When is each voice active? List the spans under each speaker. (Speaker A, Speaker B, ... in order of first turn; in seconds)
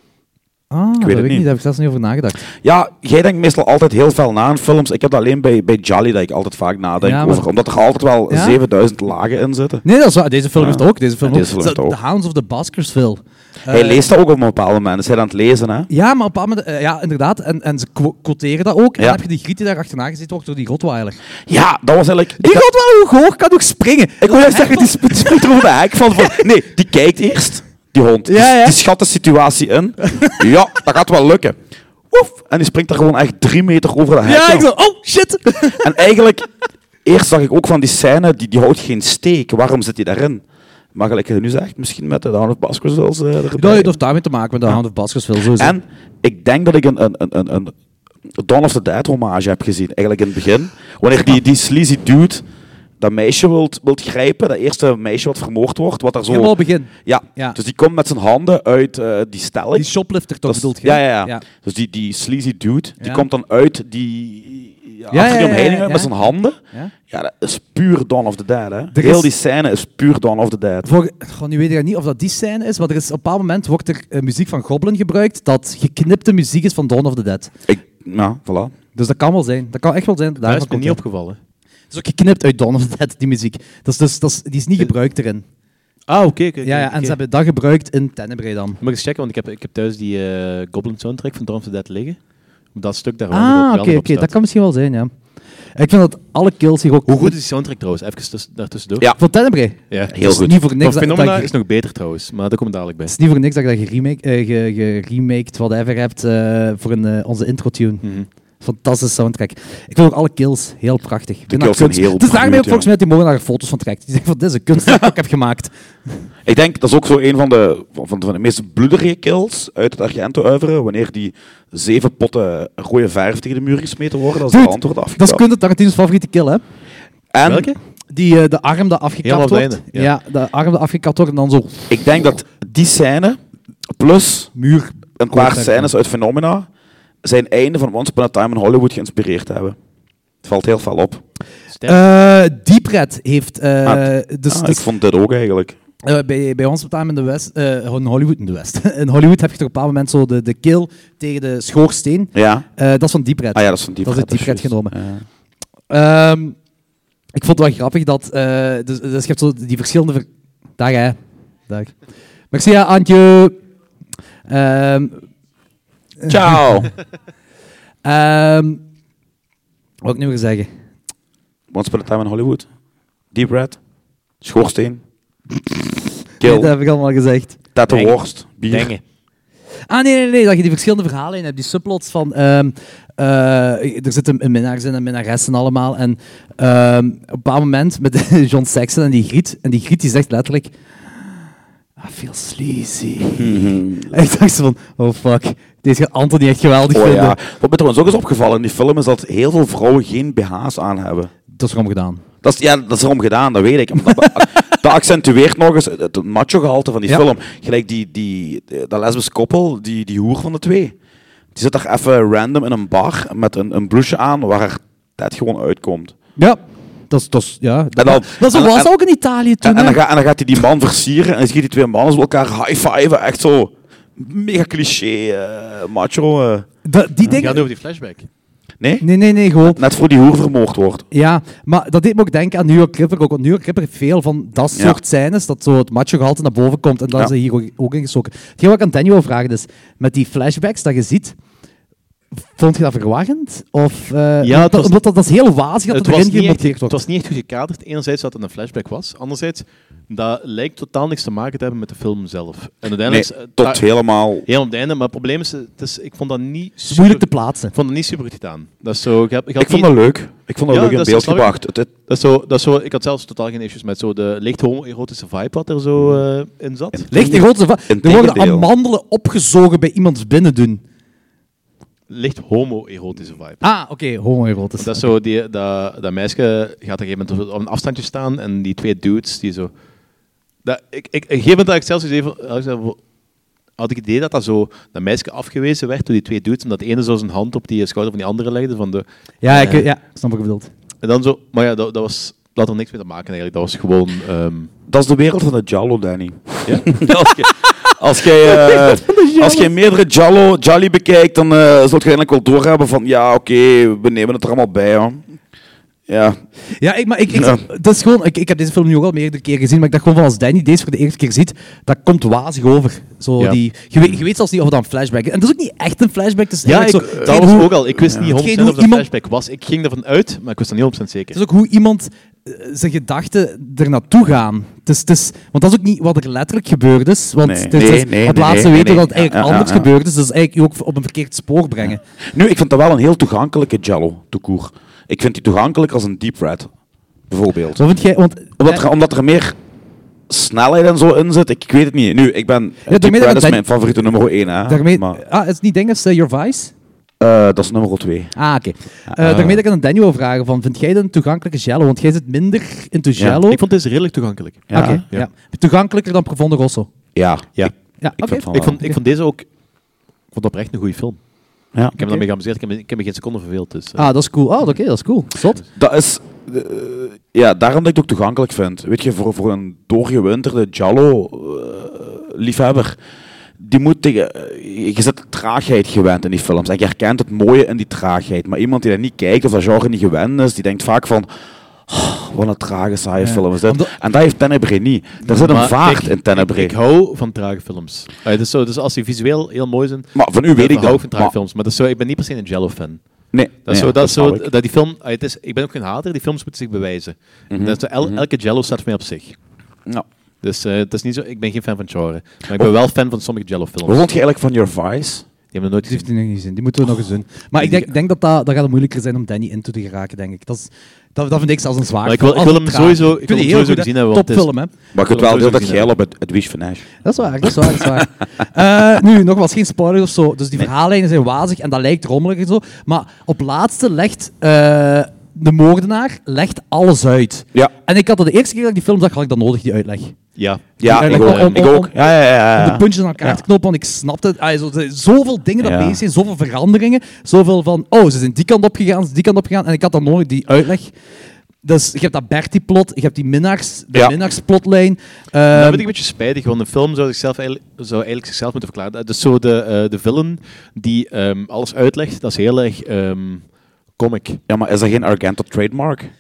Speaker A: 0.7-2.4, 7.0-7.5, 8.3-8.6, 9.8-14.0, 15.9-21.2, 22.4-26.4, 28.3-28.8, 30.1-30.5, 34.2-36.0, 43.5-45.8, 56.3-57.6, 59.8-61.5, 63.0-63.3, 65.1-66.1, 68.9-69.3, 70.8-77.5, 79.0-81.0, 81.9-85.5, 86.6-88.8, 93.3-95.1, 95.8-97.4, 99.2-101.5, 103.1-108.0, 108.6-115.7, 124.5-126.6, 128.1-131.9, 134.6-135.9, 141.8-144.8, 146.0-154.9, 155.9-156.6, 157.3-160.3, 160.8-161.2, 162.5-163.6, 164.5-165.2, 166.2-166.9, 168.0-168.8, 170.0-170.7, 176.4-177.6, 179.9-190.7, 192.0-197.4, 201.5-202.2, 204.1-204.5, 216.4-220.0, 226.9-227.7, 229.0-229.8, 231.1-241.4, 242.3-247.0, 256.9-257.7, 267.1-270.8, 273.6-275.1, 289.4-290.7, 298.4-299.7, 306.8-319.1, 321.3-332.0, 337.8-338.8, 342.9-343.6, 344.7-346.7, 348.4-353.6, 354.7-356.9, 358.0-359.0, 364.0-365.6, 383.2-383.9, 405.9-414.7, 417.0-430.2, 430.8-431.9, 432.6-440.9, 441.6-445.9
Speaker B: 1.0-1.5, 2.6-9.8, 10.6-12.0, 13.7-15.9, 21.5-22.6, 24.2-31.6, 32.1-34.7, 35.6-36.5, 37.0-40.4, 41.0-43.9, 45.5-47.7, 48.4-52.5, 53.0-59.9, 60.5-70.9, 77.7-78.8, 100.1-100.6, 111.5-112.9, 116.5-125.4, 127.3-127.7, 131.9-133.4, 134.0-134.5, 135.2-136.7, 137.2-139.8, 140.4-141.2, 143.8-145.8, 152.3-152.7, 153.6-155.2, 166.3-166.9, 171.7-172.7, 173.3-173.8, 174.4-175.0, 176.4-176.7, 177.8-178.9, 193.4-194.1, 196.9-201.3, 202.4-210.9, 211.6-216.2, 218.0-218.9, 219.6-226.7, 228.8-229.1, 229.6-231.1, 253.1-254.5, 259.6-261.9, 267.0-268.7, 294.9-305.2, 306.1-306.4, 307.3-307.6, 327.4-329.9, 331.9-336.7, 337.3-337.8, 338.6-339.6, 340.3-345.2, 347.2-348.3, 349.1-349.6, 354.7-355.0, 357.1-357.7, 358.2-358.8, 365.8-373.0, 373.6-381.3, 381.9-386.7, 390.1-391.3, 393.3-394.5, 397.5-398.2, 403.9-405.2, 414.9-416.9, 430.8-433.4, 435.6-436.0, 454.5-456.1
Speaker C: 80.4-81.4, 86.1-87.2, 88.8-92.2, 92.7-94.3, 97.1-99.1, 99.9-100.2, 100.8-103.1, 127.4-127.8, 129.2-130.1, 141.7-142.0, 177.9-178.2, 178.7-179.0, 227.3-228.3, 244.4-245.0, 245.9-253.8, 254.5-259.9, 260.7-261.6, 262.1-267.1, 272.1-273.6, 274.8-279.7, 280.6-283.0, 283.8-289.9, 291.0-294.7, 316.6-321.4, 353.4-355.3, 358.5-359.5, 360.3-361.2, 362.0-364.1, 385.3-393.0, 393.6-399.4, 400.4-404.0, 405.5-406.1, 412.0-414.5, 415.1-415.9, 430.4-431.6, 445.5-454.4